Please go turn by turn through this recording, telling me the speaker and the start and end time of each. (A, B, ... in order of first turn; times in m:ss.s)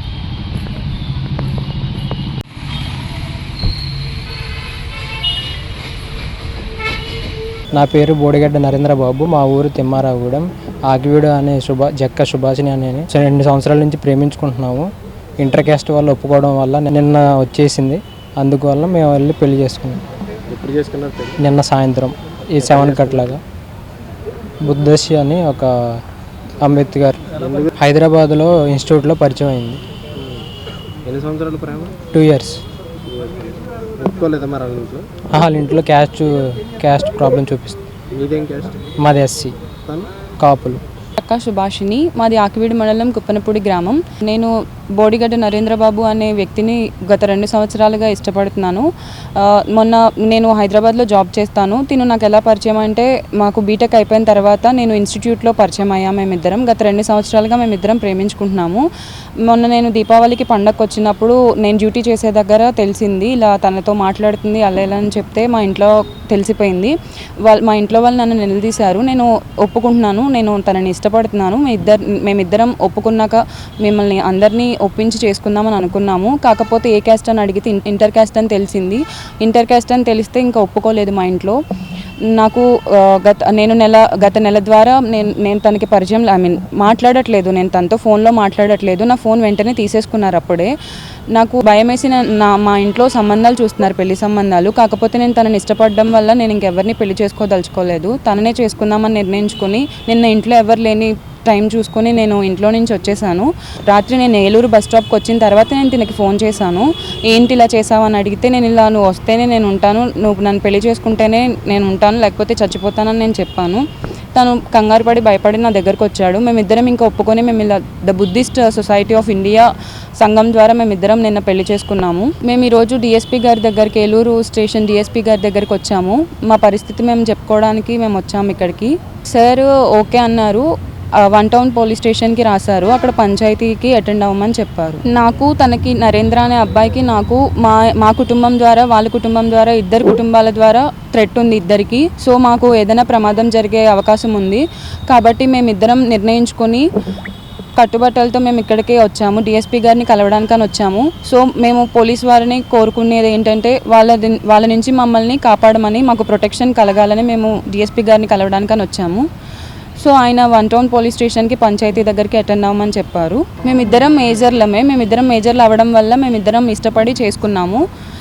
0:07.7-0:20.0 A
0:20.5-0:21.4 B
0:21.4-0:23.4 A
0:22.6-0:23.3 B
0:24.6-0:26.0 A
0:26.6-0:29.8 A
0:27.4-0:27.7 B
0:30.2-0:30.4 B
0:31.1-0:32.0 B
0:32.1-0:32.6 A
0:33.1-0:35.0 B
0:35.3-0:37.8 A
0:38.1-0:38.8 B
0:39.0-0:39.6 A
0:40.4-0:40.8 A
0:41.2-0:48.8 C
0:49.4-0:58.8 C
0:59.5-1:06.9 C
1:07.4-1:21.6 C
1:22.3-1:30.7 C
1:31.3-1:53.8 C
1:54.4-2:10.7 C
2:11.3-2:26.8 C
2:27.8-2:39.2 C
2:40.0-2:47.8 C